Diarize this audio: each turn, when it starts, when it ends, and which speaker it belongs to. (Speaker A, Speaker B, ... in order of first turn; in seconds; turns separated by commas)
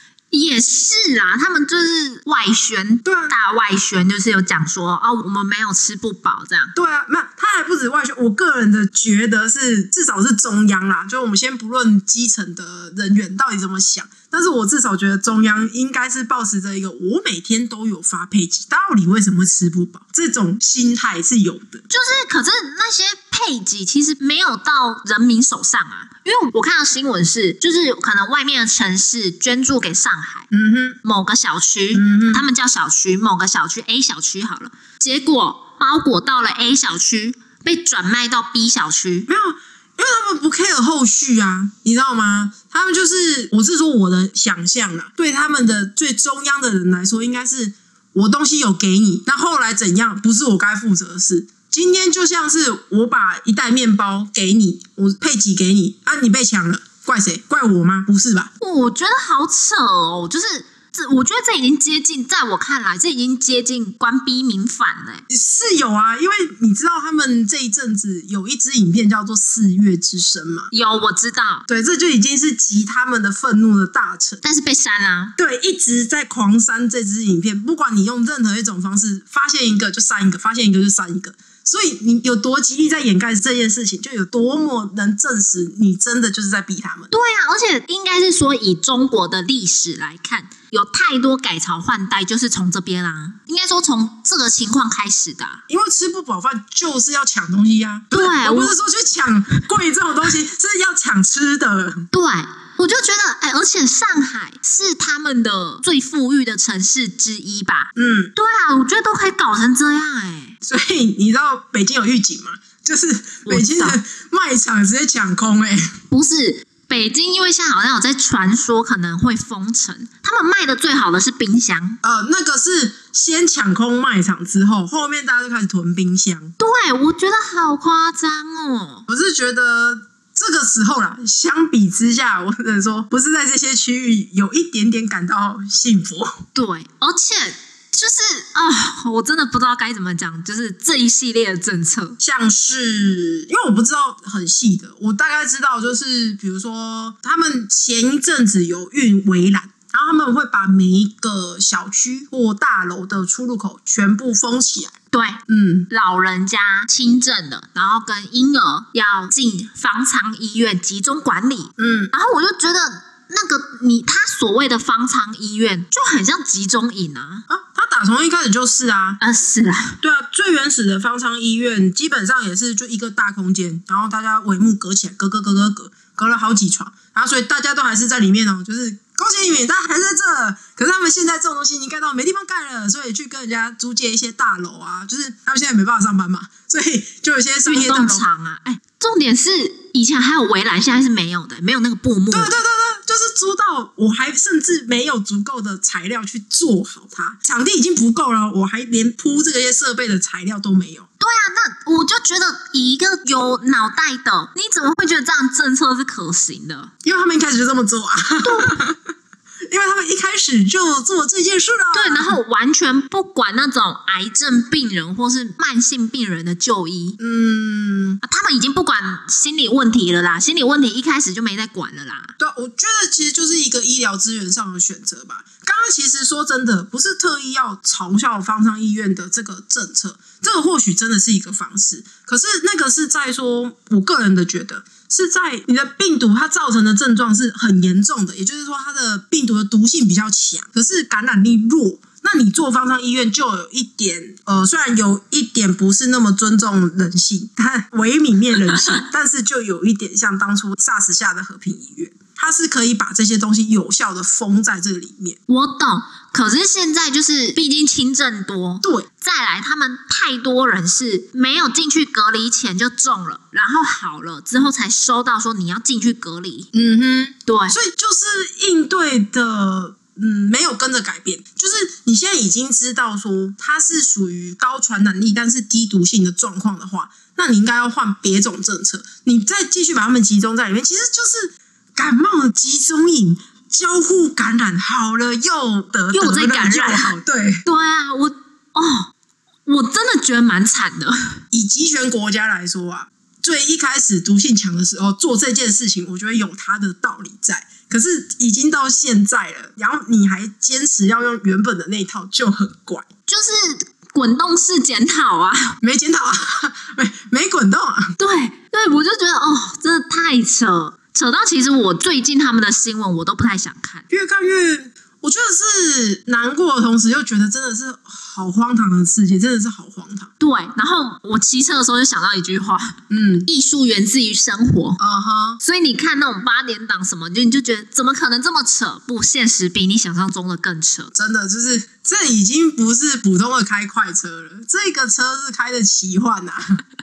Speaker A: 0.3-6.7, Speaker B: 3.0-3.3, Speaker B: 6.7-21.8, Speaker A: 21.9-30.5, Speaker B: 30.5-31.0, Speaker A: 31.0-39.3, Speaker B: 31.9-32.4, Speaker B: 39.3-58.5, Speaker A: 58.6-65.2, Speaker B: 65.3-70.7, Speaker A: 70.7-71.7, Speaker B: 71.7-74.4, Speaker A: 74.4-75.3, Speaker B: 75.4-87.1, Speaker A: 87.1-95.6, Speaker B: 95.7-102.1, Speaker A: 98.1-98.7, Speaker A: 102.1-110.5, Speaker B: 108.0-108.3, Speaker B: 110.6-116.0, Speaker A: 113.5-114.0, Speaker A: 116.1-122.0, Speaker B: 122.0-126.5, Speaker A: 126.6-129.0, Speaker B: 129.1-136.4, Speaker A: 136.5-142.2, Speaker B: 142.2-154.9, Speaker A: 155.1-167.4, Speaker B: 155.5-155.9, Speaker B: 161.8-162.1, Speaker B: 167.5-169.2, Speaker A: 169.2-170.0, Speaker B: 170.0-188.2, Speaker A: 187.7-192.5, Speaker B: 192.3-201.1, Speaker A: 201.2-206.9, Speaker B: 207.0-209.0, Speaker A: 208.4-208.8, Speaker B: 209.7-212.4, Speaker A: 211.9-217.2, Speaker B: 217.2-218.2, Speaker A: 218.2-222.3, Speaker B: 222.4-255.4, Speaker A: 255.5-266.7, Speaker B: 266.7-287.6, Speaker A: 267.4-267.8, Speaker A: 286.1-289.1, Speaker A: 289.6-291.4, Speaker B: 291.5-303.1, Speaker A: 303.3-305.8, Speaker B: 305.8-308.1, Speaker A: 308.2-314.0, Speaker B: 314.1-320.3, Speaker A: 320.4-325.0, Speaker B: 323.1-323.5, Speaker B: 325.0-325.6, Speaker A: 325.6-331.1, Speaker B: 331.1-336.8